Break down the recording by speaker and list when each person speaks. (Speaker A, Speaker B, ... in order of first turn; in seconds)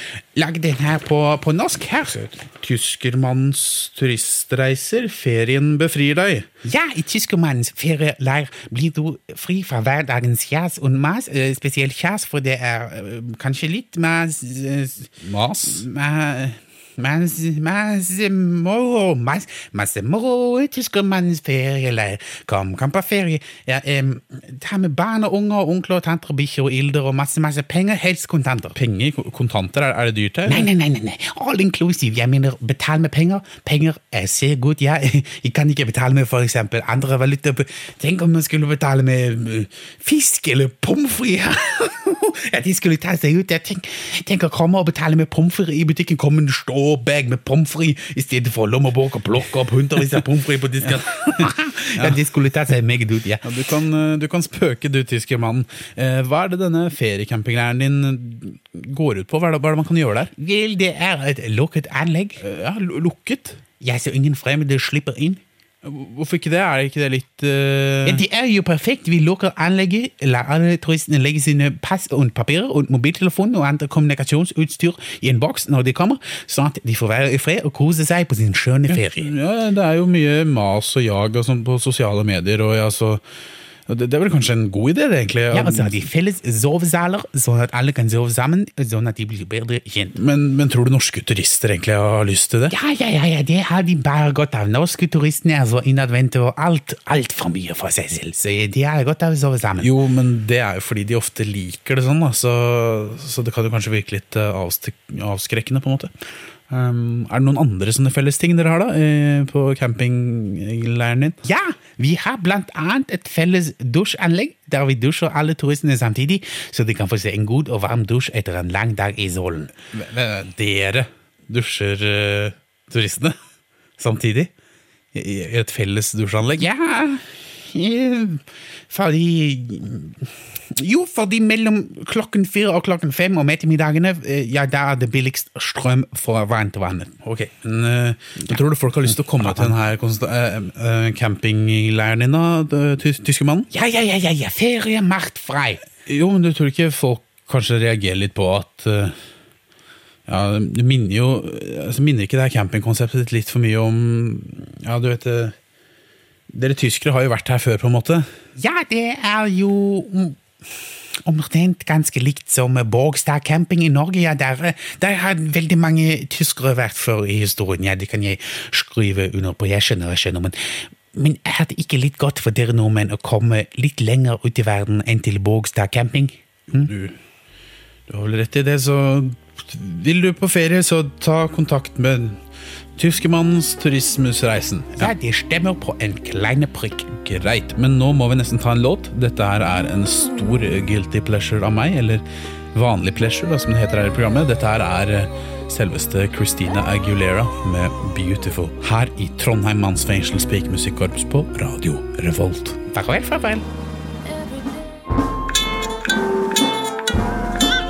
Speaker A: 0.3-3.4, 6.6-28.8, 30.4-53.4, 60.4-62.4, 63.8-65.4, 68.0-79.3, 85.5-90.2, 92.7-99.9, 111.4-119.7, 120.4-121.1, 122.1-123.3, 124.0-124.5, 126.6-137.2, 138.5-139.8, 143.7-145.8, 158.6-160.4, 161.2-170.6, 171.1-176.9, 184.9-187.2, 202.9-203.7
Speaker B: 2.4-6.5, 15.2-15.8, 28.7-30.7, 53.4-60.3, 62.4-63.6, 65.8-68.2, 78.9-83.2, 83.9-86.0, 90.2-92.7, 99.8-106.1, 106.7-111.4, 119.9-120.4, 121.5-122.2, 125.1-126.7, 137.2-143.7, 146.0-149.1, 150.3-155.6, 156.5-158.3, 176.7-177.2, 178.1-182.4, 182.9-185.1, 187.2-192.2, 192.7-202.8